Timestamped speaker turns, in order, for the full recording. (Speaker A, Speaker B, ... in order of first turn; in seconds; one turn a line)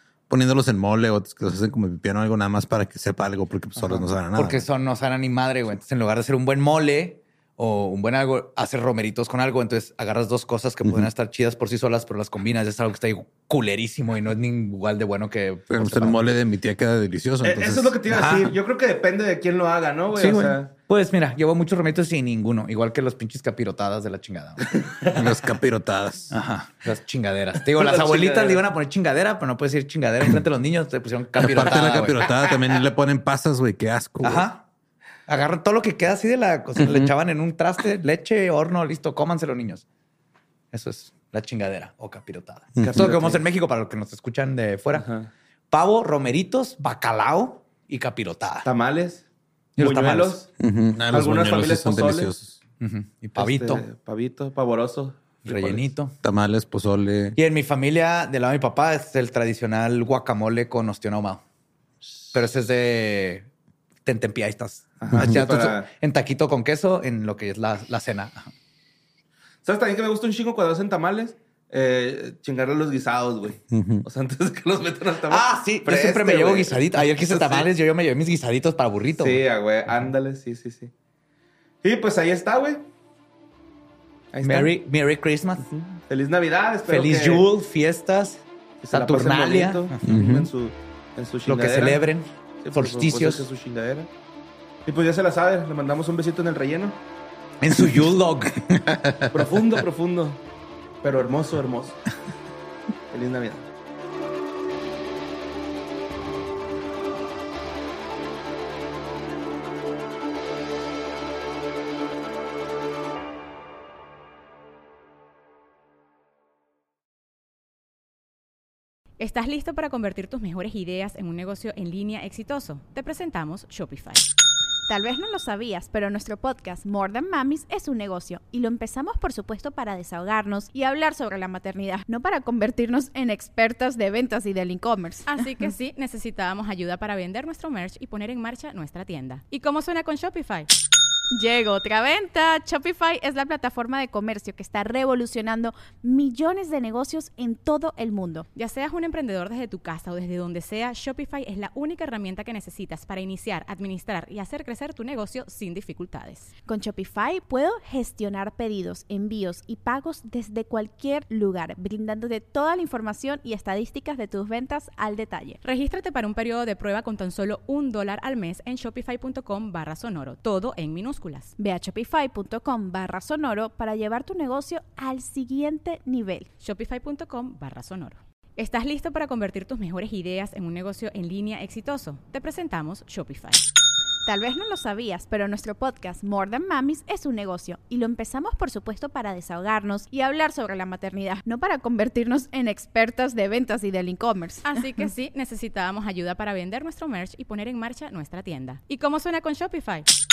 Speaker A: 0.3-4.7
Speaker B: 3.8-16.3
Speaker A: 15.7-18.0
Speaker C: 17.4-20.7
Speaker B: 18.1-18.6
Speaker B: 20.1-24.6
Speaker C: 24.7-25.2
Speaker A: 25.1-26.4
Speaker B: 26.3-32.2
Speaker C: 27.7-28.6
Speaker A: 31.4-34.5
Speaker B: 34.2-34.6
Speaker B: 35.3-39.9
Speaker A: 36.8-37.1
Speaker B: 40.7-45.1
Speaker A: 42.8-43.1
Speaker C: 42.8-43.5
Speaker C: 44.9-45.3
Speaker B: 45.7-48.7
Speaker C: 48.6-49.2
Speaker B: 49.8-50.4
Speaker C: 49.8-50.5
Speaker A: 50.6-52.6
Speaker C: 51.1-52.3
Speaker B: 52.8-53.9
Speaker C: 53.4-55.9
Speaker B: 55.5-56.1
Speaker A: 56.2-57.4
Speaker B: 57.4-61.4
Speaker B: 62.3-63.5
Speaker B: 64.0-68.5
Speaker C: 65.0-65.9
Speaker A: 65.1-65.4
Speaker C: 69.6-77.7
Speaker A: 73.7-74.0
Speaker B: 75.3-79.4
Speaker C: 79.2-80.9
Speaker C: 81.8-82.9
Speaker C: 84.3-84.7
Speaker B: 84.4-85.7
Speaker C: 85.7-87.5
Speaker B: 86.9-90.2
Speaker C: 88.8-92.1
Speaker A: 90.1-90.5
Speaker B: 91.5-93.5
Speaker C: 92.6-94.1
Speaker C: 94.9-97.0
Speaker B: 97.6-98.6
Speaker A: 97.8-99.6
Speaker C: 99.3-100.4
Speaker C: 101.0-102.0
Speaker C: 103.1-103.7
Speaker D: 119.2-124.3
Speaker E: 124.9-135.3
Speaker D: 135.3-140.7
Speaker E: 141.3-148.5
Speaker D: 148.6-156.5
Speaker E: 156.7-165.6
Speaker D: 165.6-171.5
Speaker E: 171.6-176.5
Speaker D: 176.6-183.6
Speaker E: 184.3-194.7
Speaker D: 194.7-200.1